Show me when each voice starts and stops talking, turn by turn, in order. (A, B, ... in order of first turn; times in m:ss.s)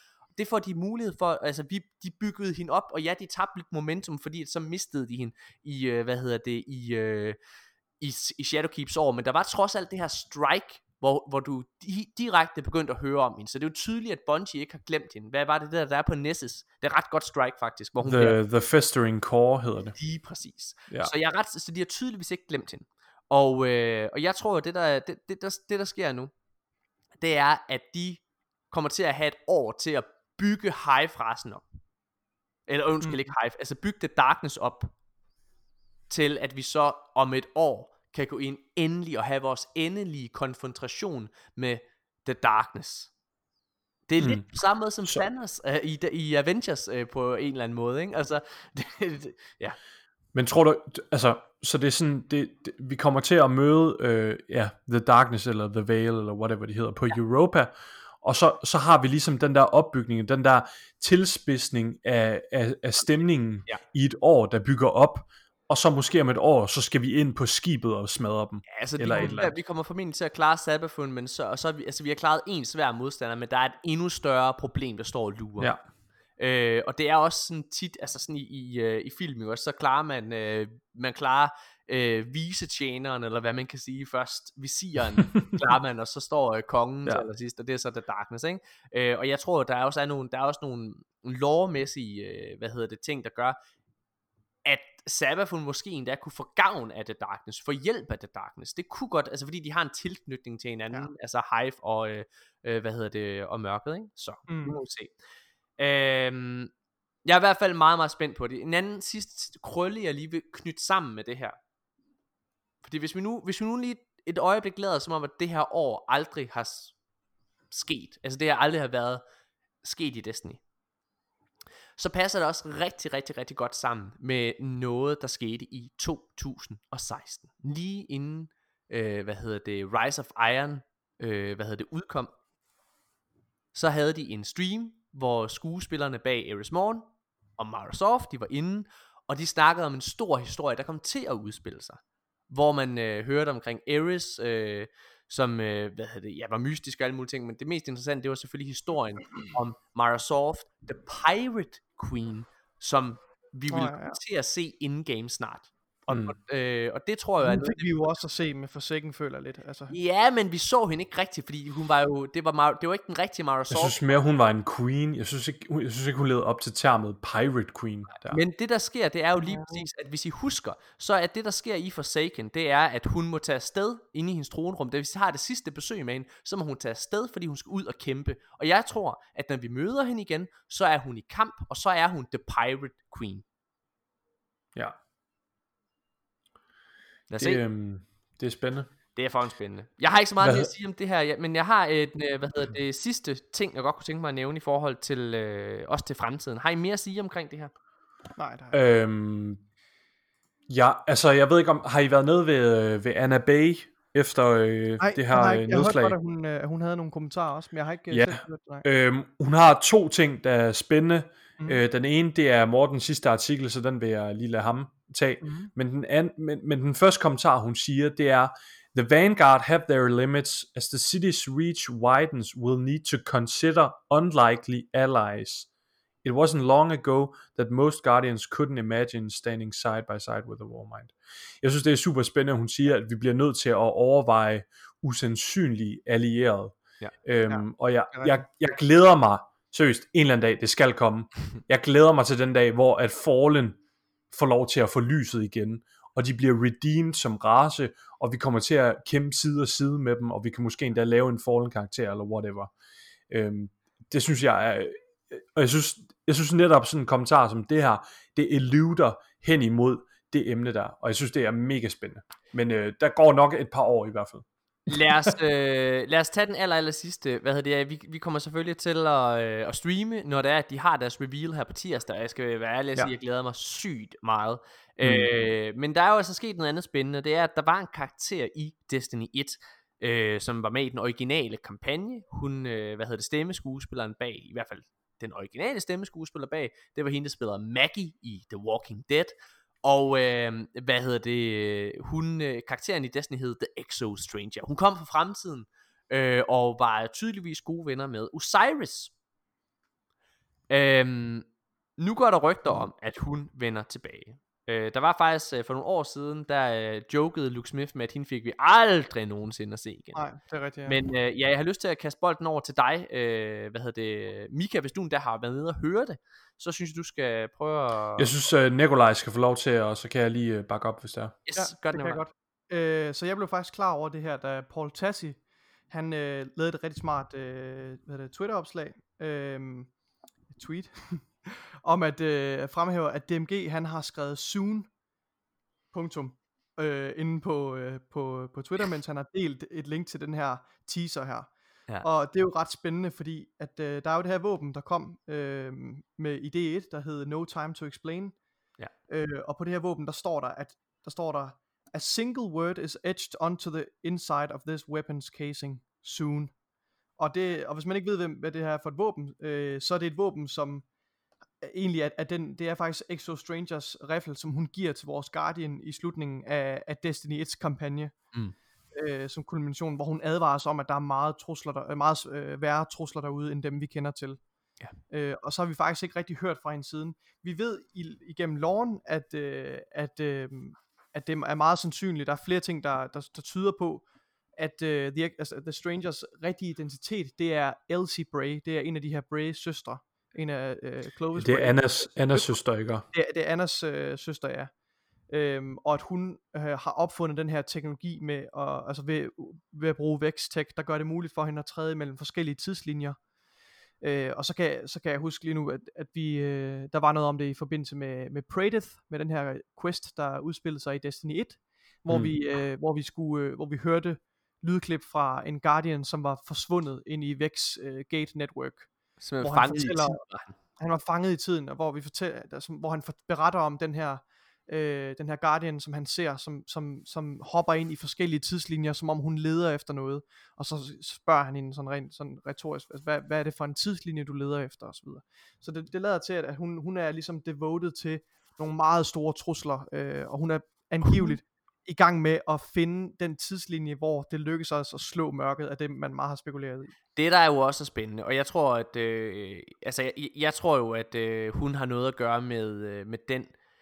0:00.4-0:07.4 A
0:08.0-0:18.4 A
0:18.0-0:20.0 B
0:20.0-0:26.3 A
0:27.2-0:31.6 A
0:32.7-0:34.9 A
0:36.1-0:43.1 A
0:44.1-0:49.8 A
0:44.2-0:44.5 B
0:50.3-1:09.6 B
1:08.7-1:15.8 A
1:09.1-1:09.4 C
1:16.4-1:33.6 A
1:34.6-1:45.2 A
1:44.5-1:44.8 C
1:45.8-1:46.7 A
1:47.2-1:51.6 A
1:52.8-1:56.9 A
1:57.7-1:59.2 A
1:59.8-2:00.6 A
2:02.0-2:12.3 A
2:13.7-2:17.1 A
2:17.6-2:38.0 A
2:33.7-2:34.2 C
2:36.1-2:36.4 B
2:37.4-2:39.9 C
2:39.9-2:44.0 A
2:43.7-2:48.4 B
2:48.3-3:03.4 A
2:49.4-2:49.8 C
3:07.3-3:07.6 A
3:07.4-3:08.9 B
3:09.2-3:17.7 A
3:10.4-3:10.7 B
3:18.4-3:18.8 C
3:18.7-3:19.6 B
3:20.7-3:26.2 B
3:25.0-3:28.9 C
3:28.1-3:45.7 B
3:35.4-3:35.7 C
3:46.2-4:03.8 B
3:57.5-3:58.4 C
4:04.3-4:12.7 B
4:13.3-4:24.4 B
4:24.9-4:59.1 A
4:35.0-4:35.3 B
5:00.7-5:01.5 A
5:02.0-5:10.2 A
5:10.1-5:11.0 C
5:10.9-5:18.3 A
5:18.2-5:21.4 B
5:21.4-5:22.2 A
5:21.6-5:29.9 C
5:30.5-5:34.9 C
5:35.9-5:48.4 C
5:49.1-5:56.6 C
5:57.2-6:00.8 C
6:01.6-6:08.2 C
6:08.9-6:14.4 C
6:15.1-6:24.0 C
6:24.6-6:32.6 C
6:31.4-6:33.0 B
6:33.1-6:34.7 C
6:35.3-6:43.2 C
6:44.0-7:00.2 C
6:59.2-7:00.6 A
7:00.8-7:27.0 C
7:27.2-7:33.5 A